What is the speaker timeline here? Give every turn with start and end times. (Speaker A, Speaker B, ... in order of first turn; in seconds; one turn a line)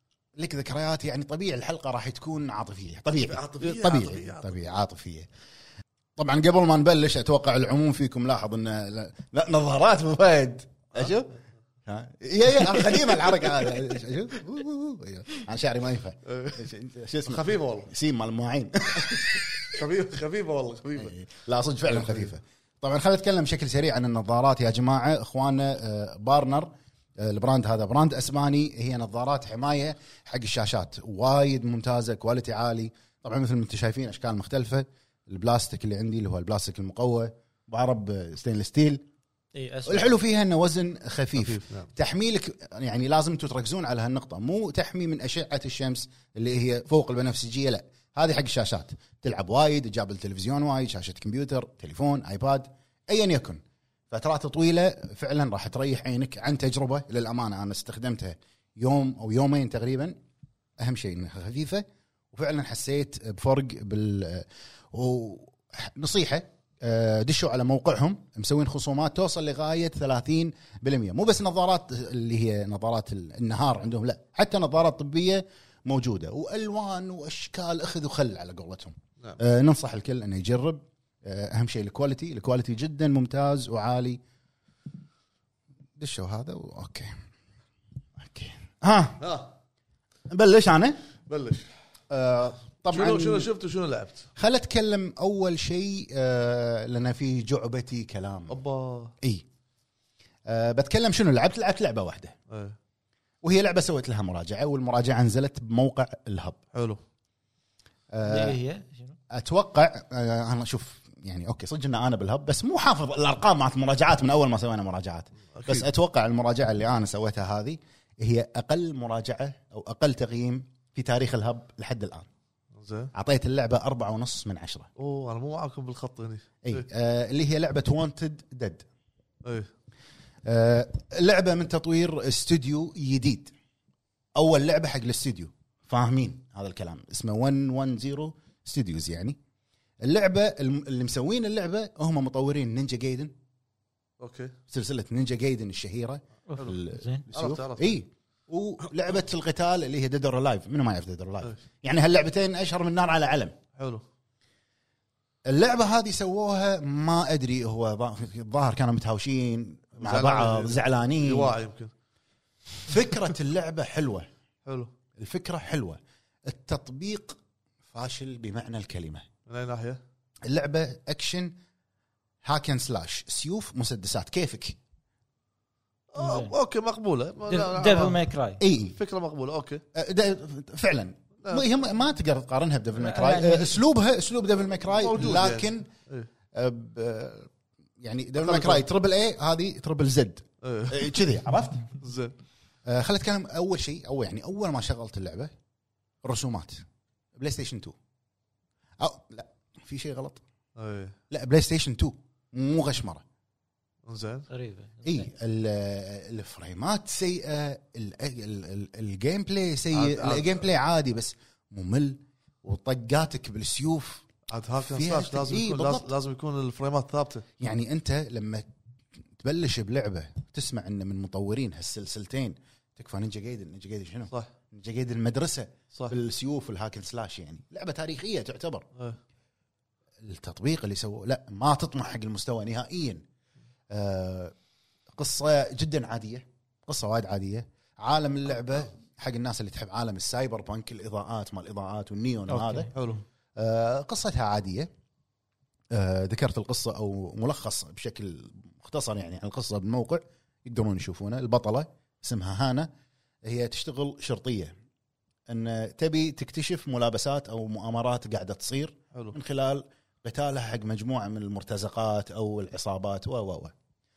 Speaker A: 0.3-5.3
Speaker B: 3.2-4.5
Speaker A: 6.2-11.3
Speaker A: 11.8-19.8
Speaker B: 12.5-13.8
Speaker B: 16.2-16.6
Speaker B: 17.2-17.9
Speaker B: 18.9-21.1
Speaker A: 21.0-39.0
Speaker B: 21.9-22.3
Speaker C: 39.5-40.1
Speaker A: 39.8-60.2
Speaker B: 41.4-41.9
Speaker A: 60.8-84.2
Speaker A: 86.0-87.1
Speaker A: 88.2-89.2
Speaker B: 89.2-89.5
Speaker A: 90.3-91.0
Speaker B: 91.3-91.7
Speaker A: 92.1-93.5
Speaker B: 92.9-94.3
Speaker A: 94.3-98.6
Speaker B: 98.5-99.1
Speaker A: 100.5-102.3
Speaker B: 102.5-102.8
Speaker A: 103.4-106.6
Speaker B: 106.7-107.0
Speaker A: 108.1-108.6
Speaker C: 108.2-109.1
Speaker A: 109.3-122.3
Speaker B: 115.5-115.9
Speaker B: 122.8-123.1
Speaker A: 123.1-124.9
Speaker B: 125.0-126.9
Speaker A: 126.6-128.8
Speaker B: 129.4-129.7
Speaker A: 130.4-133.5
Speaker A: 134.3-139.4
Speaker A: 140.0-143.3
Speaker B: 144.2-144.6
Speaker A: 144.7-153.6
Speaker C: 146.5-147.2
Speaker B: 146.5-146.8
Speaker B: 147.3-148.0
Speaker B: 153.8-154.0
Speaker A: 155.5-161.5
Speaker B: 160.0-161.9
Speaker A: 162.8-164.3
Speaker B: 164.7-164.9
Speaker A: 165.2-167.4
Speaker A: 167.9-169.2
Speaker B: 169.5-170.0
Speaker A: 170.4-171.5
Speaker A: 172.4-174.8
Speaker B: 176.1-178.2
Speaker C: 176.2-176.5
Speaker C: 177.5-178.6
Speaker A: 178.6-178.9
Speaker B: 178.9-179.8
Speaker A: 179.9-185.9
Speaker B: 181.4-181.7
Speaker C: 182.9-183.8
Speaker B: 184.9-186.3
Speaker A: 186.5-191.9
Speaker B: 188.4-188.8
Speaker B: 190.6-191.2
Speaker B: 192.0-192.4
Speaker A: 192.8-195.5
Speaker A: 196.2-196.8
Speaker A: 197.3-197.9
Speaker A: 199.0-200.4
Speaker B: 200.8-201.2
Speaker A: 201.3-203.2
Speaker B: 204.1-204.5
Speaker C: 204.5-205.3
Speaker A: 205.0-214.3
Speaker B: 209.9-210.7
Speaker B: 214.5-217.4
Speaker A: 214.8-216.1
Speaker A: 217.6-218.7
Speaker A: 219.4-228.9
Speaker A: 230.2-233.2
Speaker A: 233.9-234.5
Speaker A: 235.1-244.9
Speaker C: 242.5-242.9
Speaker B: 242.9-243.2
Speaker A: 245.9-252.9
Speaker A: 253.4-254.7
Speaker A: 255.5-263.7